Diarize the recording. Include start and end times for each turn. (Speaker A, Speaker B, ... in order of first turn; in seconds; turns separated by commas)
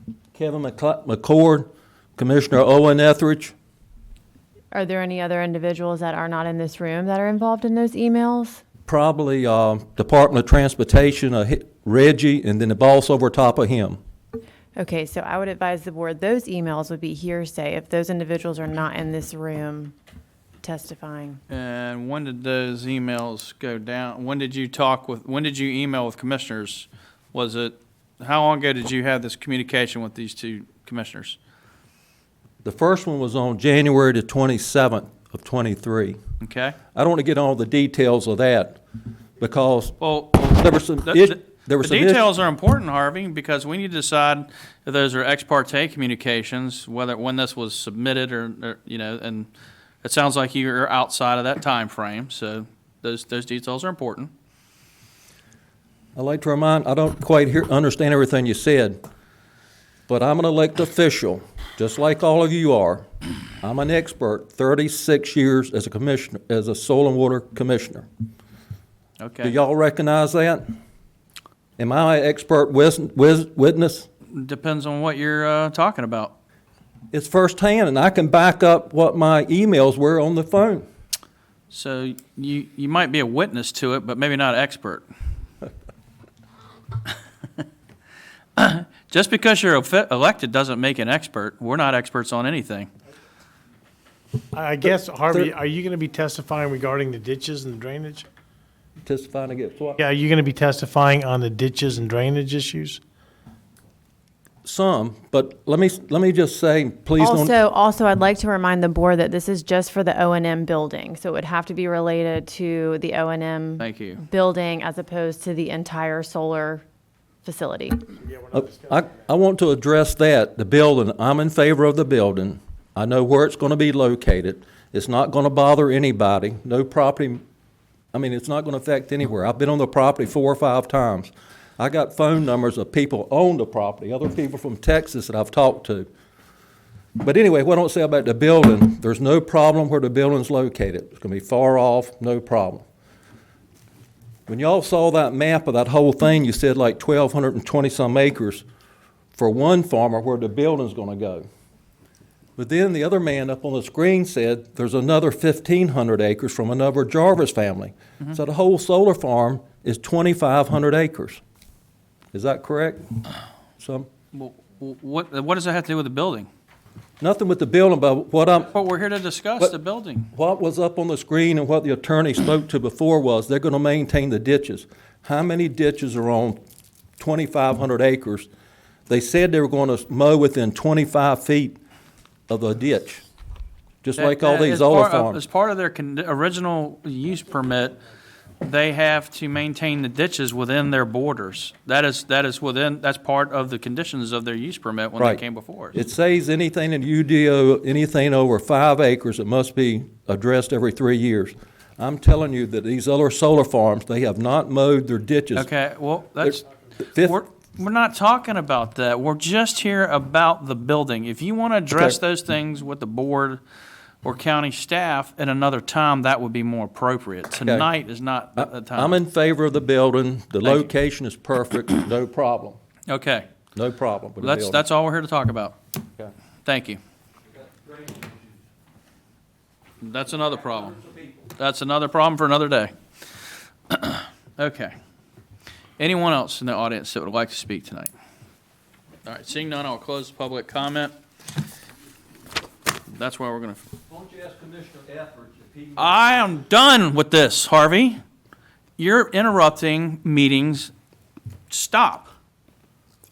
Speaker A: 0.3-3.5, Speaker B: 4.7-8.6, Speaker A: 8.9-14.0, Speaker B: 14.8-19.9, Speaker B: 20.6-21.4, Speaker C: 21.5-31.4, Speaker A: 32.6-36.2, Speaker C: 36.4-36.8, Speaker A: 36.9-38.8, Speaker A: 39.4-42.3, Speaker C: 40.0-49.5, Speaker C: 50.0-54.3, Speaker A: 56.2-59.0, Speaker A: 60.1-63.0, Speaker A: 63.6-68.1, Speaker C: 69.2-69.5, Speaker A: 69.4-70.8, Speaker A: 71.8-74.1, Speaker C: 74.3-76.3, Speaker A: 77.1-80.8, Speaker C: 81.7-85.0, Speaker C: 88.6-92.9, Speaker D: 94.5-98.3, Speaker A: 99.0-100.0, Speaker D: 100.0-103.0, Speaker A: 104.6-107.5, Speaker B: 107.2-116.8, Speaker C: 113.8-114.2, Speaker B: 117.4-118.0, Speaker D: 118.2-119.0, Speaker A: 118.5-127.4, Speaker A: 128.1-136.1, Speaker A: 137.2-142.8, Speaker A: 144.5-148.7, Speaker A: 149.4-151.5, Speaker A: 152.6-161.4, Speaker A: 162.3-163.0, Speaker A: 163.8-164.1, Speaker C: 164.3-166.5, Speaker A: 167.2-168.7, Speaker C: 168.7-170.3, Speaker A: 170.3-176.6, Speaker A: 177.2-178.5, Speaker A: 179.1-181.8, Speaker A: 182.5-183.2, Speaker A: 184.0-185.4, Speaker C: 184.2-188.0, Speaker C: 188.6-196.0, Speaker A: 195.2-205.7, Speaker C: 205.5-206.6, Speaker C: 207.2-213.6, Speaker C: 214.2-219.2, Speaker A: 218.6-222.8, Speaker C: 220.6-220.9, Speaker C: 223.1-223.5, Speaker A: 223.8-224.8, Speaker C: 224.4-225.8, Speaker C: 226.7-227.0, Speaker A: 227.8-228.4, Speaker C: 230.0-232.9, Speaker C: 233.9-234.9, Speaker C: 236.0-238.1, Speaker C: 239.3-241.1, Speaker C: 243.1-243.8, Speaker A: 244.1-246.6, Speaker C: 246.0-248.2, Speaker C: 249.0-250.9, Speaker C: 251.7-252.3